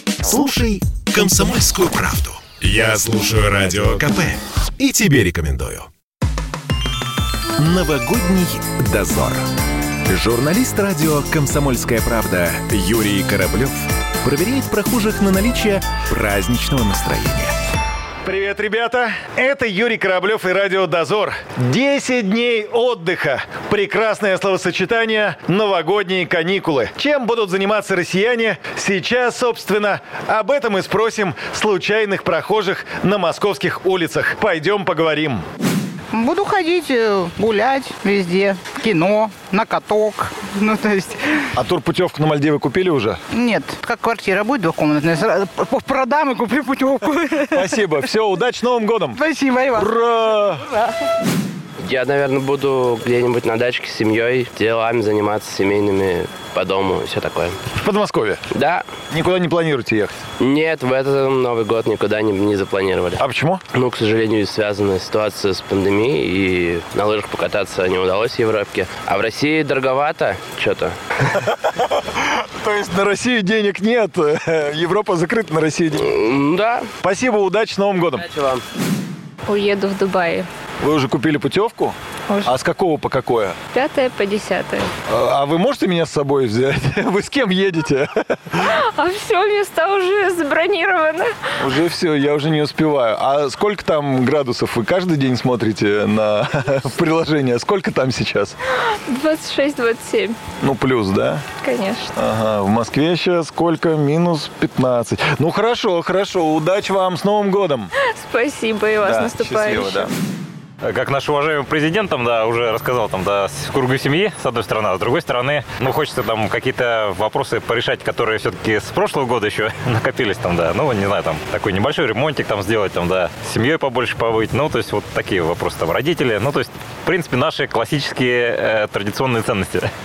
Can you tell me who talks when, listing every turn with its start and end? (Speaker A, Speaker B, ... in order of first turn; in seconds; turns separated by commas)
Speaker A: 0.3-1.5, Speaker B: 1.1-5.9, Speaker A: 7.6-9.5, Speaker A: 10.1-17.5, Speaker C: 18.2-35.4, Speaker D: 36.1-41.5, Speaker C: 41.5-43.2, Speaker D: 43.3-48.1, Speaker C: 47.5-49.2, Speaker D: 49.1-50.0, Speaker C: 49.7-50.6, Speaker E: 51.8-57.6, Speaker C: 57.8-58.4, Speaker E: 58.5-58.9, Speaker C: 59.1-60.2, Speaker E: 60.4-63.2, Speaker C: 63.2-63.6, Speaker E: 63.7-71.0, Speaker C: 71.4-76.0, Speaker E: 75.9-76.9, Speaker C: 77.0-78.3, Speaker E: 78.2-78.6, Speaker F: 79.5-80.5, Speaker C: 80.8-83.6, Speaker F: 83.7-84.9, Speaker C: 85.1-88.6, Speaker F: 88.6-91.3, Speaker C: 91.6-98.6, Speaker F: 99.1-100.4, Speaker C: 100.6-101.4, Speaker F: 101.6-102.1, Speaker C: 102.2-107.9, Speaker F: 108.1-110.1, Speaker C: 109.0-110.1, Speaker G: 110.8-129.9